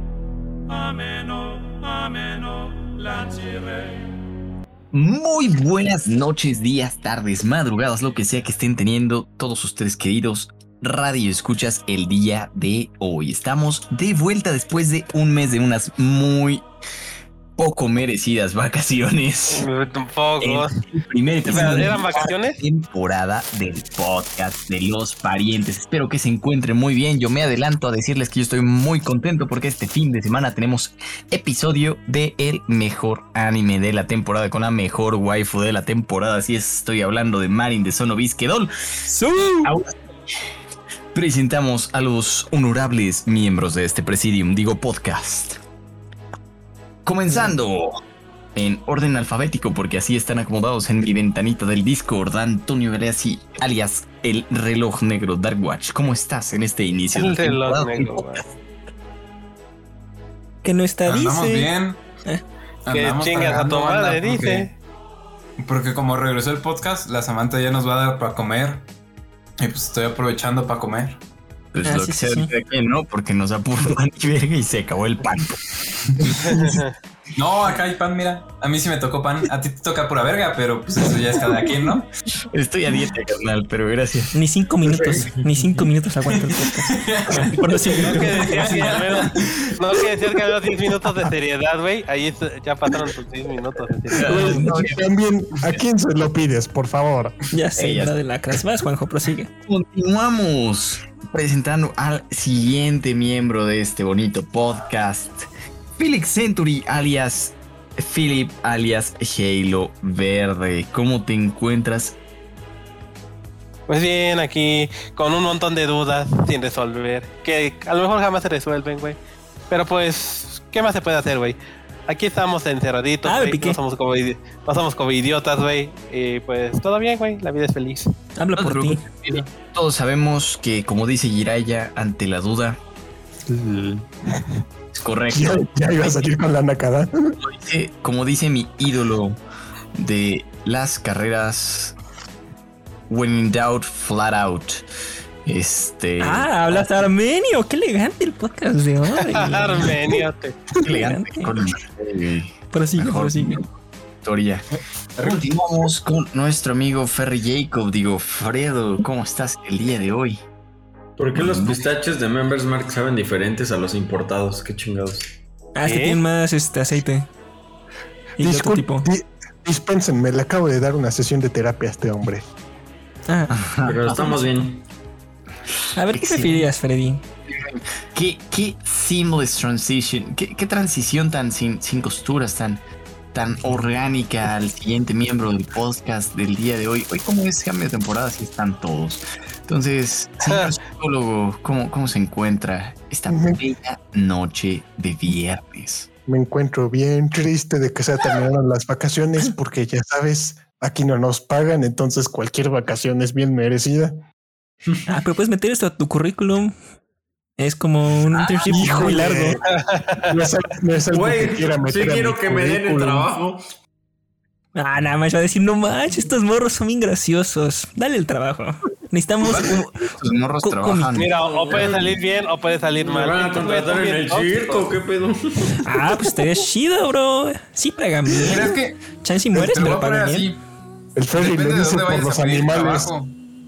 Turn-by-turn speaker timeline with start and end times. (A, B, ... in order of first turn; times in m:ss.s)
0:00.7-0:04.2 A
0:04.9-0:16.7 B
0:17.6-0:19.7 B
0:19.5-0:20.7 C
0:20.4-0:38.7 B
0:21.4-0:22.6 C
0:39.1-0:39.7 D
0:39.6-0:40.0 B
0:41.1-0:45.6 B
0:47.0-0:48.0 B
0:48.6-0:58.5 B
0:57.1-0:58.4 C
1:00.6-1:01.7 D
1:01.1-1:02.0 E
1:02.9-1:04.7 E
1:02.9-1:04.7 C
1:05.6-1:08.9 E
1:09.6-1:11.2 E
1:11.7-1:16.8 B
1:11.8-1:12.5 D
1:16.4-1:16.9 C
1:17.4-1:22.1 E
1:21.1-1:22.0 B
1:22.5-1:25.8 B
1:24.3-1:29.0 D
1:26.6-1:29.8 E
1:28.0-1:34.6 C
1:34.1-1:35.1 B
1:34.2-1:37.4 F
1:37.5-1:39.5 D
1:37.8-1:38.2 B
1:39.7-1:52.2 B
1:53.9-1:59.2 C
1:59.7-2:08.1 C
2:03.2-2:03.8 D
2:08.4-2:09.0 D
2:08.6-2:12.8 B
2:13.5-2:14.0 F
2:14.9-2:16.3 B
2:15.3-2:17.4 F
2:17.4-2:19.4 B
2:19.9-2:22.0 B
2:23.1-2:24.8 B
2:25.4-2:26.9 B
2:26.2-2:30.0 D
2:29.2-2:30.6 C
2:30.8-2:34.7 B
2:30.8-2:31.6 D
2:32.7-2:33.6 D
2:35.2-2:40.4 B
2:41.2-2:45.3 G
2:41.3-2:41.8 B
2:45.8-2:47.3 D
2:45.8-2:46.2 C
2:48.4-2:49.1 D
2:48.4-2:52.4 F
2:53.3-2:53.6 D
2:53.5-2:54.5 B
2:53.8-2:54.8 G
2:56.0-2:57.2 D
2:56.1-2:56.7 B
2:57.5-3:16.1 B
3:13.3-3:13.6 F
3:16.3-3:24.2 F
3:25.1-3:26.7 D
3:27.6-3:29.6 D
3:28.7-3:29.6 F
3:29.7-3:30.3 C
3:30.3-3:33.3 F
3:31.1-3:33.6 G
3:34.8-3:40.1 D
3:39.4-3:41.3 B
3:40.6-3:41.2 D
3:41.1-3:44.9 C
3:41.4-3:42.1 G
3:43.0-3:45.8 G
3:45.8-3:50.5 D
3:48.4-3:49.0 E
3:49.5-3:50.6 E
3:51.2-3:53.1 F
3:51.4-3:53.3 E